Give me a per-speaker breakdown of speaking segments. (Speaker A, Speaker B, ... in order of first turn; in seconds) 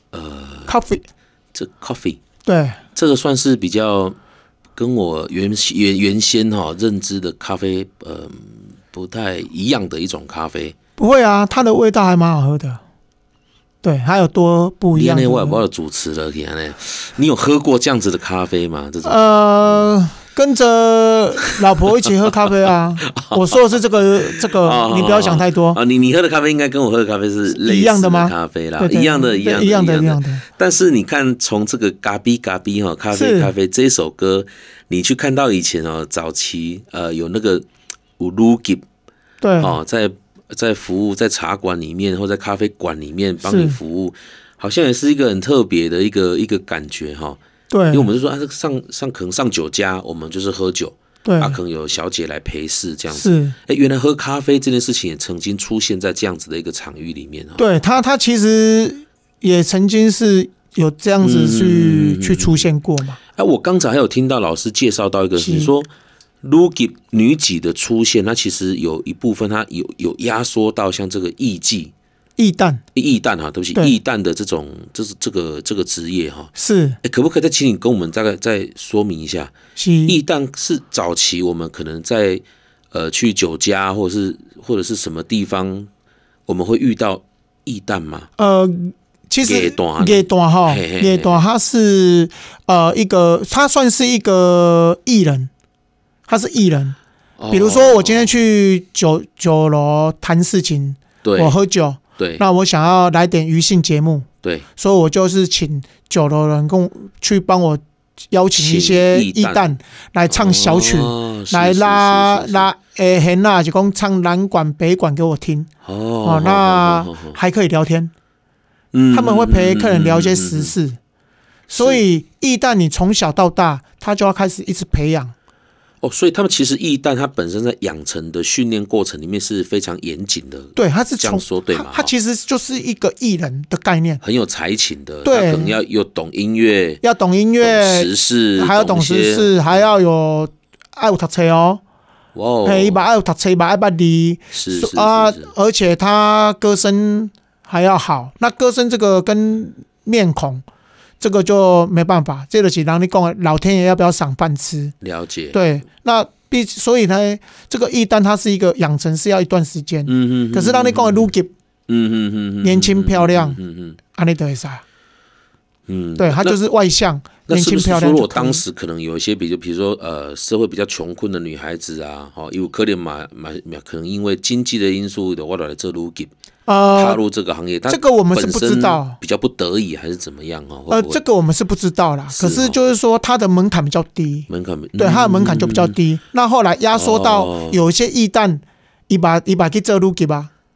Speaker A: 0.1-0.7, 1.5-2.2, 2.9-4.2, 4.8-10.7, 14.9-19.9, 23.1-23.4, 24.3-37.6, 38.2-38.8, 39.6-47.4, 47.9-57.6, 61.2-62.6, 63.4-65.9, 66.4-71.9, 72.9-79.5, 80.1-85.9, 86.5-88.3, 89.4-91.4, 97.4-98.3, 101.2-101.6, 102.2-102.4, 108.5-109.8, 110.3-112.7, 115.8-117.4, 118.9-120.7, 121.7-122.0, 126.0-132.1, 134.2-137.0, 137.6-139.8, 142.3-143.0, 144.5-145.5, 155.0-155.6, 160.1-161.3, 161.9-164.0, 165.9-166.6, 167.5-176.3, 176.9-181.2, 182.3-182.8, 184.5-185.9, 186.9-187.8
Speaker B: 0.7-1.0, 2.4-2.8, 11.0-12.8, 13.8-15.6, 19.0-25.8, 27.5-30.4, 33.1-33.5, 39.4-39.8, 43.4-43.8, 47.7-48.1, 51.2-51.6, 53.1-53.5, 57.6-63.2, 65.4-65.7, 72.4-72.8, 76.5-77.0, 79.8-80.2, 88.4-95.5, 96.3-97.0, 97.5-104.2, 104.8-115.7, 116.2-118.1, 119.1-121.0, 121.7-125.3, 130.8-134.2, 135.2-135.8, 137.0-141.8, 142.6-150.6, 151.2-154.9, 155.5-161.5, 162.6-163.6, 164.1-164.8, 166.2-168.6, 176.7-177.2, 177.9-179.2, 180.9-190.5